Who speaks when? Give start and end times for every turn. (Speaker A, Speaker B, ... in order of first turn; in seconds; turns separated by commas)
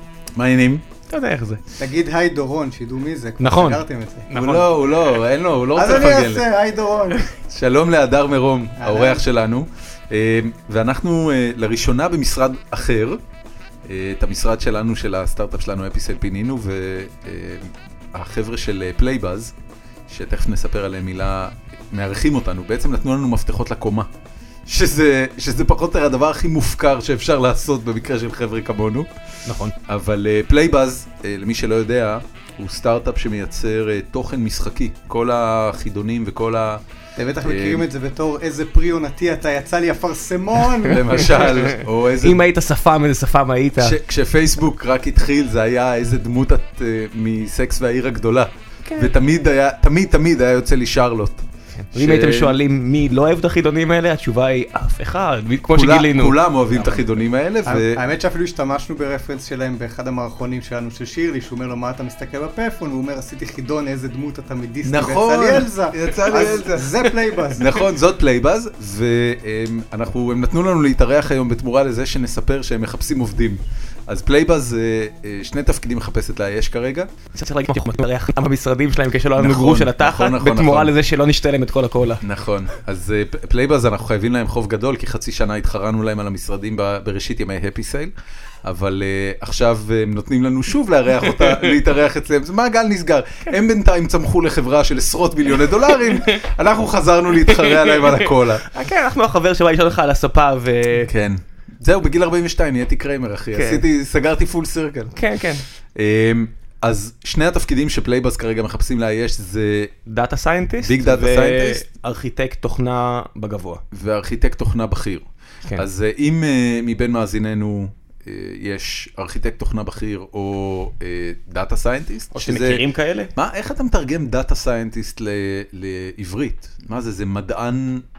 Speaker A: 0.3-0.8, Speaker B: 1.1-1.6, Speaker C: 1.8-4.3, Speaker B: 3.4-4.7, Speaker A: 4.3-6.5, Speaker C: 5.8-7.3, Speaker A: 7.4-13.2, Speaker C: 8.8-9.2, Speaker A: 13.9-19.5, Speaker A: 20.1-24.1, Speaker A: 24.7-29.1, Speaker B: 29.5-29.8, Speaker A: 29.8-36.8, Speaker C: 37.2-41.5, Speaker A: 37.4-37.9, Speaker A: 40.8-42.4, Speaker B: 41.5-44.0, Speaker A: 43.8-52.6, Speaker B: 48.9-49.1, Speaker B: 51.9-56.4, Speaker A: 55.7-58.0, Speaker C: 56.7-57.0, Speaker C: 57.6-67.9, Speaker A: 64.9-77.1, Speaker B: 77.3-82.2, Speaker A: 79.4-81.0, Speaker A: 82.2-88.1, Speaker A: 88.6-98.7, Speaker B: 91.4-91.7, Speaker B: 97.5-101.1, Speaker A: 101.1-105.2, Speaker B: 103.5-103.8, Speaker B: 105.2-105.6, Speaker A: 106.0-109.9, Speaker B: 110.1-113.8, Speaker A: 110.8-111.8, Speaker A: 113.9-122.8, Speaker B: 122.3-123.3, Speaker A: 123.3-128.1